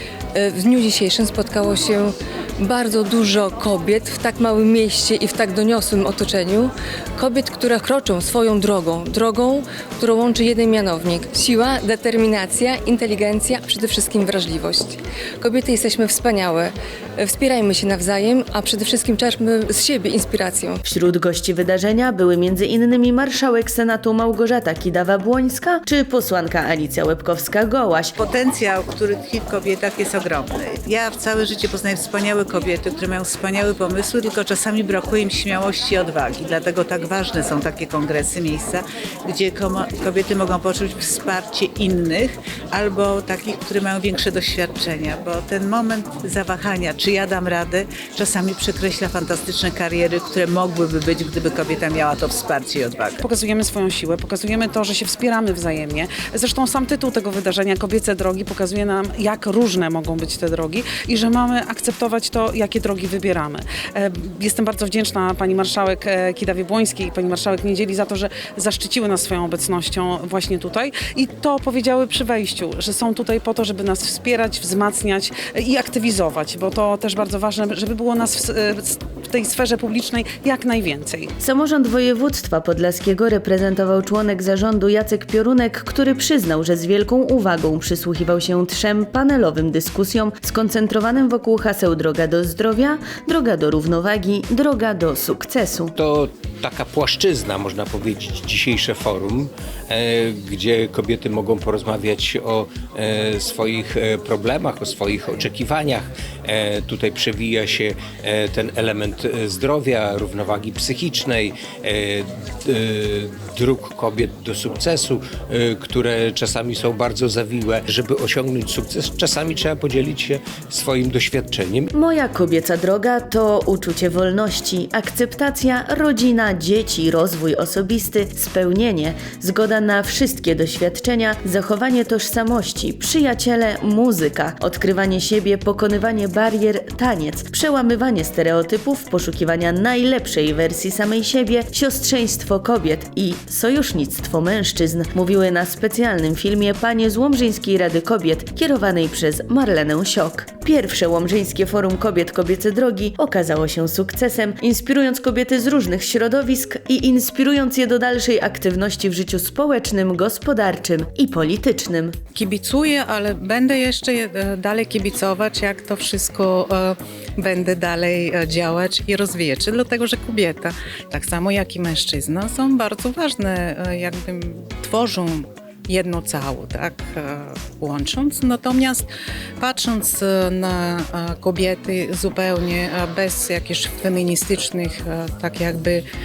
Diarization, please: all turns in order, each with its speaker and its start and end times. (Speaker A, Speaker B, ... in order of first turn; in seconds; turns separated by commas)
Speaker A: 0.3-20.8, Speaker B: 20.9-28.1, Speaker C: 28.2-53.2, Speaker D: 53.2-81.3, Speaker B: 81.4-95.9, Speaker E: 96.0-121.9, Speaker B: 121.9-162.2, Speaker F: 162.4-170.7, Speaker F: 171.2-179.1, Speaker F: 179.6-186.0